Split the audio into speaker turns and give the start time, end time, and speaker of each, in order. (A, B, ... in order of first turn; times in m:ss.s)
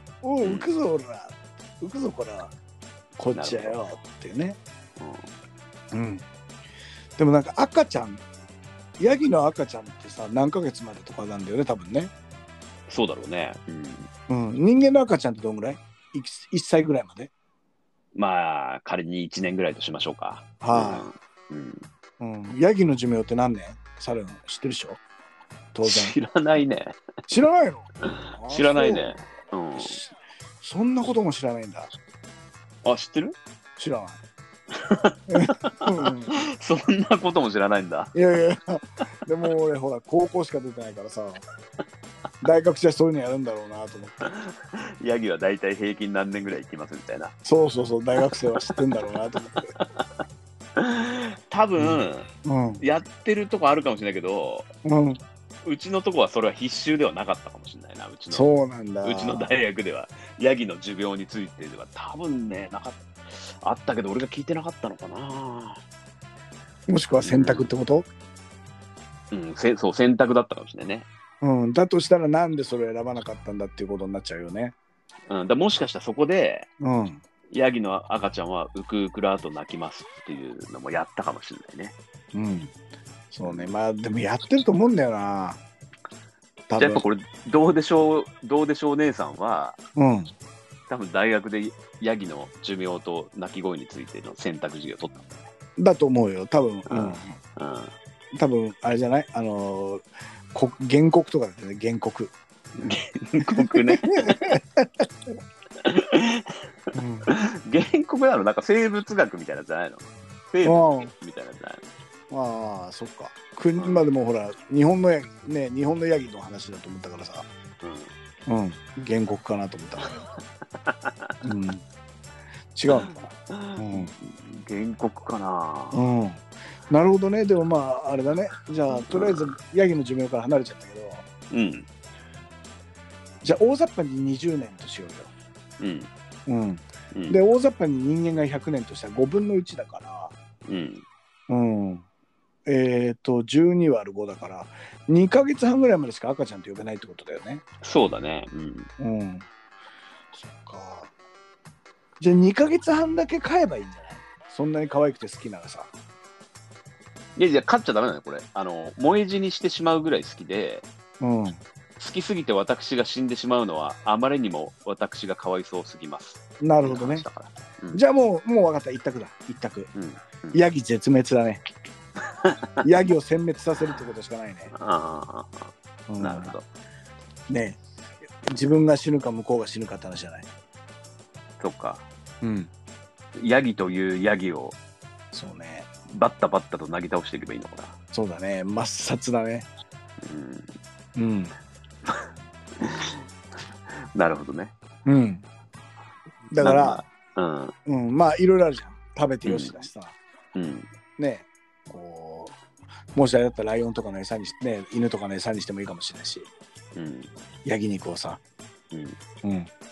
0:00.2-0:02.5 A
0:00.4-0:00.7 B
0:03.2-0:04.6 A
0:03.3-0:03.9 B
0:05.0-0:05.3 B
0:05.9-0:06.2 A
0:07.2-0:08.2 A
0:09.0-0:12.1 A
0:12.9-0:14.1 B
0:14.3-0:17.3 A
0:18.2-0:21.8 B
0:20.6-0:21.1 A
0:22.2-0:25.0 A
0:25.7-0:26.2 A
0:25.8-0:27.0 B
0:27.3-0:29.2 A
0:28.1-0:30.0 B
0:29.8-0:31.9 A
0:32.8-0:33.4 B
0:33.8-0:34.2 A
0:34.7-0:38.2 B
0:35.3-0:36.4 A
0:38.1-0:41.4 A
0:42.4-0:44.3 A
0:44.2-0:47.4 B
0:47.4-0:49.7 A
0:48.2-0:48.7 B
0:49.8-0:50.1 B
0:50.8-0:52.3 B
0:51.8-0:52.8 A
0:52.8-0:54.7 B
0:54.8-0:55.2 A
0:55.6-0:58.5 B
0:58.3-0:59.5 A
0:59.0-1:05.8 B
1:06.9-1:08.1 A
1:07.2-1:07.7 B
1:09.3-1:11.1 B
1:11.4-1:14.8 A
1:15.3-1:16.7 B
1:16.8-1:17.2 A
1:17.5-1:22.0 B
1:22.3-1:22.7 A
1:23.3-1:25.6 A
1:23.4-1:23.7 B
1:26.7-1:27.0 A
1:26.8-1:29.8 B
1:30.0-1:30.3 A
1:30.9-1:35.5 B
1:35.8-1:37.4 A
1:36.9-1:37.9 B
1:38.4-1:42.3 A
1:42.8-1:44.6 B
1:43.4-1:45.0 A
1:45.8-1:46.6 B
1:46.9-1:47.3 A
1:47.3-1:51.8 B
1:50.6-1:51.1 A
1:52.3-1:57.5 A
1:53.8-1:54.1 B
1:57.8-1:58.1 B
1:58.5-2:00.2 A
2:00.7-2:01.3 B
2:01.4-2:01.8 A
2:02.8-2:04.1 A
2:03.5-2:06.0 B
2:05.9-2:11.3 A
2:08.9-2:09.5 B
2:11.5-2:11.9 B
2:13.4-2:15.3 A
2:15.8-2:16.1 B
2:16.5-2:20.3 A
2:17.1-2:17.4 B
2:20.7-2:21.0 B
2:21.5-2:22.0 A
2:22.7-2:27.6 A
2:27.8-2:28.9 B
2:29.0-2:29.5 A
2:30.3-2:31.1 A
2:32.2-2:35.9 A
2:37.4-2:40.9 B
2:41.2-2:41.6 A
2:42.0-2:48.0 B
2:46.6-2:47.3 A
2:47.9-2:49.9 A
2:50.0-2:50.6 B
2:50.5-2:51.6 A
2:52.2-2:52.7 B
2:52.8-2:54.7 A
2:54.7-2:56.7 B
2:56.1-2:56.6 A
2:57.5-2:57.8 A
2:58.4-3:00.5 A
3:01.6-3:02.0 B
3:02.4-3:02.7 A
3:03.4-3:04.8 B
3:05.3-3:05.9 A
3:06.1-3:08.0 B
3:08.1-3:09.7 A
3:10.2-3:10.7 B
3:11.2-3:11.5 A
3:12.0-3:14.7 B
3:15.1-3:15.4 A
3:16.5-3:17.0 A
3:16.6-3:17.8 B
3:17.9-3:20.2 A
3:19.4-3:19.8 B
3:20.6-3:20.9 B
3:21.2-3:22.6 A
3:23.1-3:26.5 A
3:27.0-3:27.3 B
3:27.6-3:28.4 A
3:29.4-3:29.7 A